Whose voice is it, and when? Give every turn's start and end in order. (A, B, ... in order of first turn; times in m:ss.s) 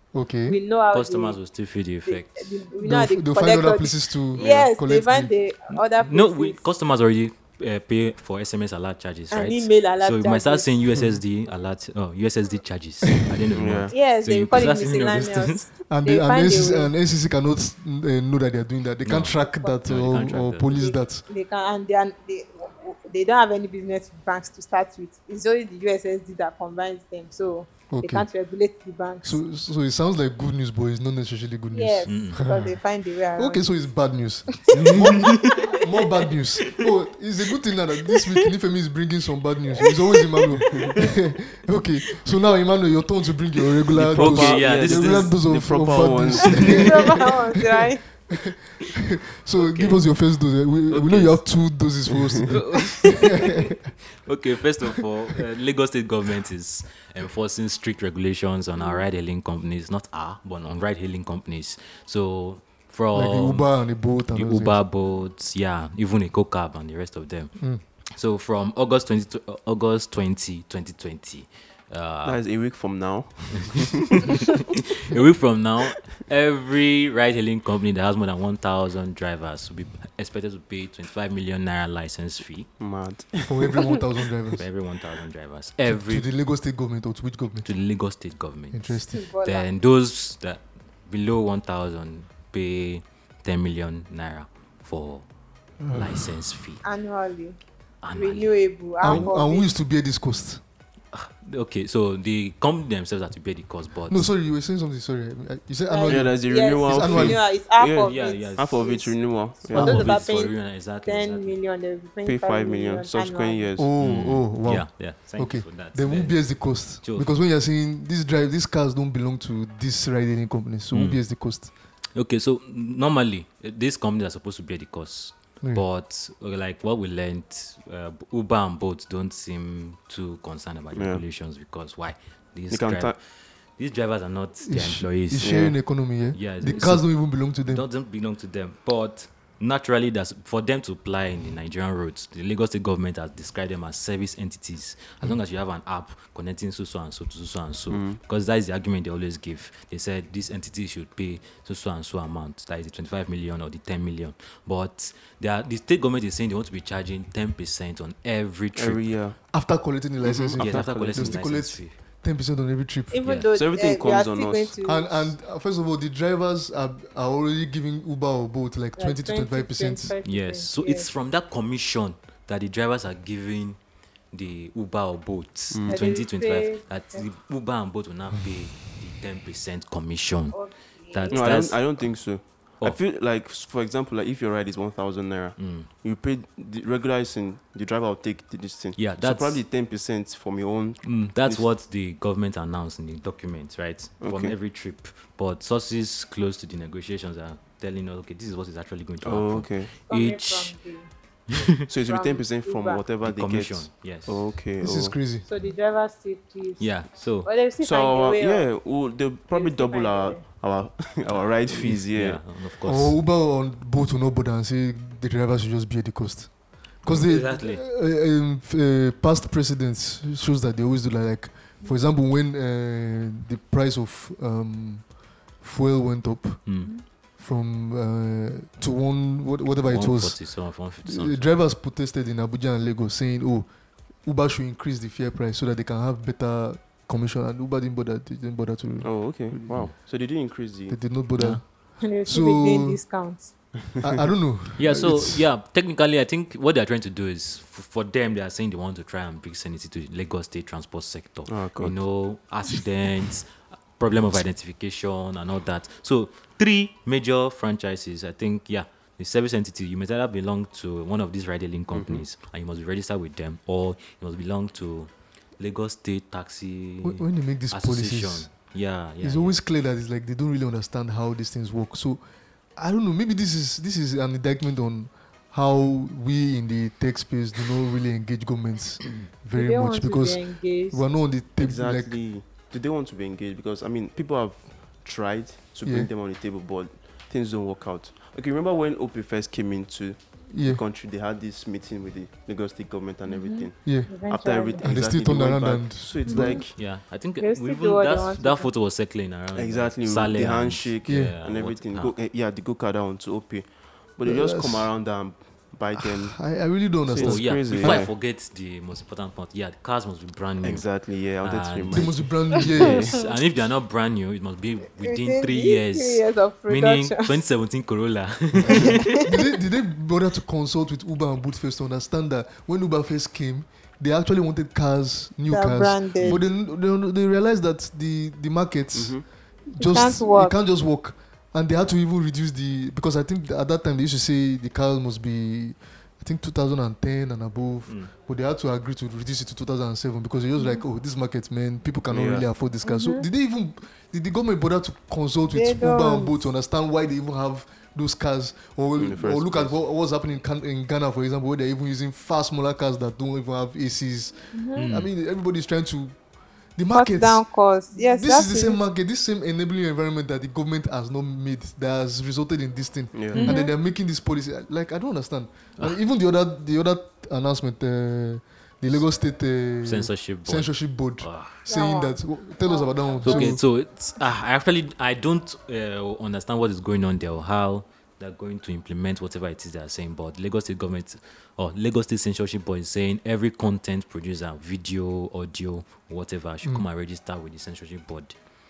0:00.1-0:00.6 A
0:00.4-0:01.4 B
0:00.9-0:02.6 C
0:02.0-0:06.7 B
0:02.8-0:05.3 A
0:06.0-0:15.6 C
0:09.3-0:10.7 B
0:13.6-0:13.9 D
0:13.9-0:16.9 B
0:15.9-0:21.2 A
0:19.0-0:20.8 C
0:19.4-0:19.8 B
0:20.7-0:29.4 B
0:27.9-0:28.3 A
0:29.2-0:32.8 A
0:31.7-0:33.8 B
0:32.0-0:32.4 C
0:33.4-0:47.2 A
0:34.7-0:35.6 C
0:43.9-0:45.4 C
0:44.1-0:47.1 D
0:46.0-0:47.2 C
0:46.6-0:48.0 B
0:48.3-0:48.6 A
0:49.3-0:53.3 A
0:49.6-0:50.1 C
0:50.9-0:51.4 C
0:52.5-1:03.7 C
1:03.1-1:04.8 A
1:04.3-1:07.5 C
1:08.2-1:12.4 C
1:12.2-1:14.2 D
1:15.0-1:22.7 C
1:22.8-1:23.7 D
1:23.4-1:24.6 A
1:24.6-1:26.3 C
1:25.9-1:27.7 A
1:27.6-1:35.2 C
1:28.7-1:29.2 A
1:29.1-1:29.7 B
1:35.8-1:36.2 A
1:35.8-1:36.8 C
1:36.8-1:37.6 B
1:38.0-1:38.5 C
1:38.1-1:39.7 B
1:39.0-1:40.6 A
1:41.1-1:44.3 C
1:44.1-1:47.4 A
1:45.9-1:53.7 B
1:46.1-1:50.1 D
1:48.0-1:48.8 C
1:49.6-1:51.6 C
1:52.2-1:53.9 D
1:53.8-2:01.7 A
1:54.0-1:57.3 C
2:00.9-2:01.2 C
2:02.1-2:13.2 C
2:10.9-2:11.2 D
2:12.7-2:13.2 D
2:13.8-2:15.6 C
2:14.6-2:17.8 A
2:15.4-2:15.8 D
2:16.3-2:39.0 C
2:27.9-2:28.2 D
2:38.7-2:39.4 D
2:39.5-2:43.2 A
2:40.2-2:41.4 D
2:40.6-2:42.0 C
2:43.1-2:45.3 B
2:43.2-2:43.5 C
2:43.5-2:44.8 D
2:44.8-2:50.1 A
2:49.0-2:51.1 B
2:50.2-2:53.8 C
2:54.3-3:00.6 C
2:55.7-2:56.1 D
2:55.9-2:57.3 B
3:00.5-3:01.5 B
3:01.1-3:03.0 C
3:01.3-3:11.7 D
3:05.6-3:05.9 C
3:09.0-3:09.6 C
3:11.0-3:20.7 C
3:14.2-3:14.6 D
3:19.2-3:19.9 D
3:20.1-3:21.1 B
3:21.9-3:25.2 D
3:22.0-3:23.0 B
3:23.2-3:24.5 C
3:24.8-3:25.5 A
3:25.4-3:28.8 B
3:26.8-3:27.5 C
3:27.8-3:32.4 D
3:29.5-3:30.4 B
3:31.3-3:33.2 C
3:32.8-3:36.5 A
3:37.0-3:46.8 A
3:37.0-3:37.8 C
3:46.6-3:46.9 C
3:47.4-3:50.4 A
3:49.8-3:51.4 C
3:51.0-3:53.7 A
3:54.2-3:59.8 A
3:59.0-4:01.1 D
4:00.9-4:03.0 A
4:01.4-4:01.6 C
4:02.0-4:03.5 B
4:04.0-4:05.4 A
4:04.8-4:29.6 C
4:11.5-4:12.0 D
4:21.9-4:22.2 D
4:27.0-4:28.5 A
4:29.2-4:32.2 A
4:32.8-4:42.2 A
4:39.5-4:41.0 B
4:41.6-4:56.7 D
4:45.8-4:46.1 A
4:50.5-4:50.8 A
4:53.3-4:54.8 B
4:53.8-4:54.2 A
4:54.8-4:56.6 A
4:56.2-4:56.6 B
4:56.7-5:02.2 C
4:57.4-4:58.7 B
4:59.5-5:08.1 D
5:01.0-5:01.4 A
5:04.2-5:04.9 A
5:05.9-5:08.1 A
5:07.1-5:19.2 C
5:10.6-5:13.0 D
5:11.9-5:13.1 A
5:12.8-5:13.3 B
5:15.0-5:17.4 B
5:18.6-5:56.2 A
5:18.8-5:19.3 B
5:25.5-5:26.4 B
5:28.9-5:29.2 D
5:29.8-5:30.6 B
5:42.1-5:42.5 D
5:42.8-5:43.3 B
5:45.5-5:46.4 B
5:49.0-5:49.8 D
5:54.5-5:54.9 B
5:54.8-5:55.1 C
5:56.8-6:13.6 A
5:56.9-5:58.8 B
6:03.1-6:03.4 D
6:03.4-6:03.7 B
6:09.8-6:11.6 C
6:11.6-6:13.6 B
6:13.2-6:28.3 C